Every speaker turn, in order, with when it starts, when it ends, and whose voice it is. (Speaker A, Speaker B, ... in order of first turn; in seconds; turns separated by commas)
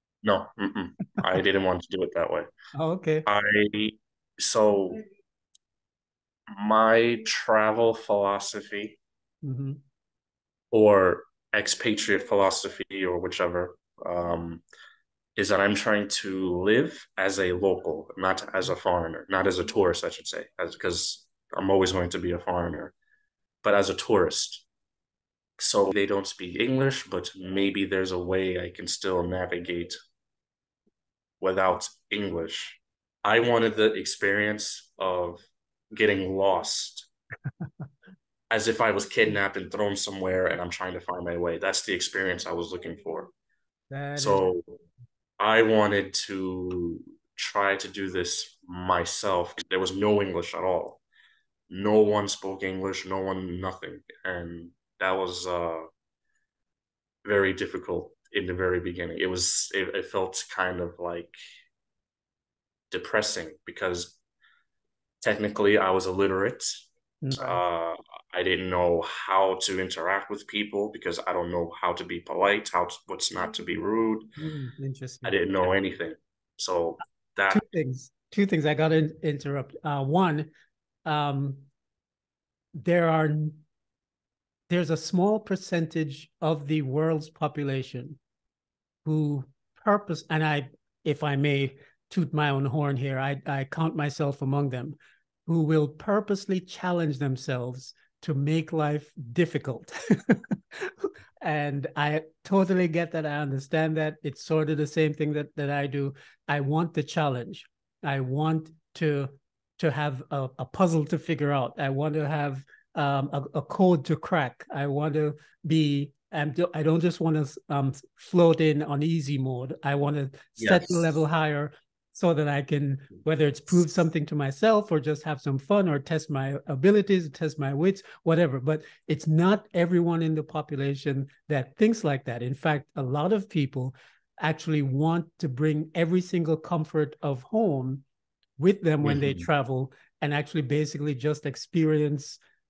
Speaker A: 0.2-2.5, Speaker B: 2.8-3.3, Speaker A: 3.2-5.0, Speaker A: 6.5-9.0, Speaker B: 9.4-9.8, Speaker A: 10.7-14.6, Speaker A: 15.4-22.9, Speaker A: 23.6-24.7, Speaker A: 25.6-29.9, Speaker A: 31.4-37.1, Speaker A: 38.5-43.3, Speaker B: 43.9-44.5, Speaker A: 44.2-44.6, Speaker A: 45.4-51.0, Speaker A: 51.7-55.9, Speaker A: 57.2-61.3, Speaker A: 62.9-64.2, Speaker A: 65.2-66.7, Speaker B: 67.2-67.6, Speaker A: 67.4-74.3, Speaker B: 74.4-75.7, Speaker A: 75.2-77.6, Speaker B: 77.5-80.5, Speaker B: 81.0-81.7, Speaker B: 82.8-83.6, Speaker B: 84.7-88.2, Speaker B: 89.0-95.0, Speaker B: 95.5-138.0, Speaker A: 120.6-121.1, Speaker B: 138.6-142.4, Speaker A: 139.0-139.5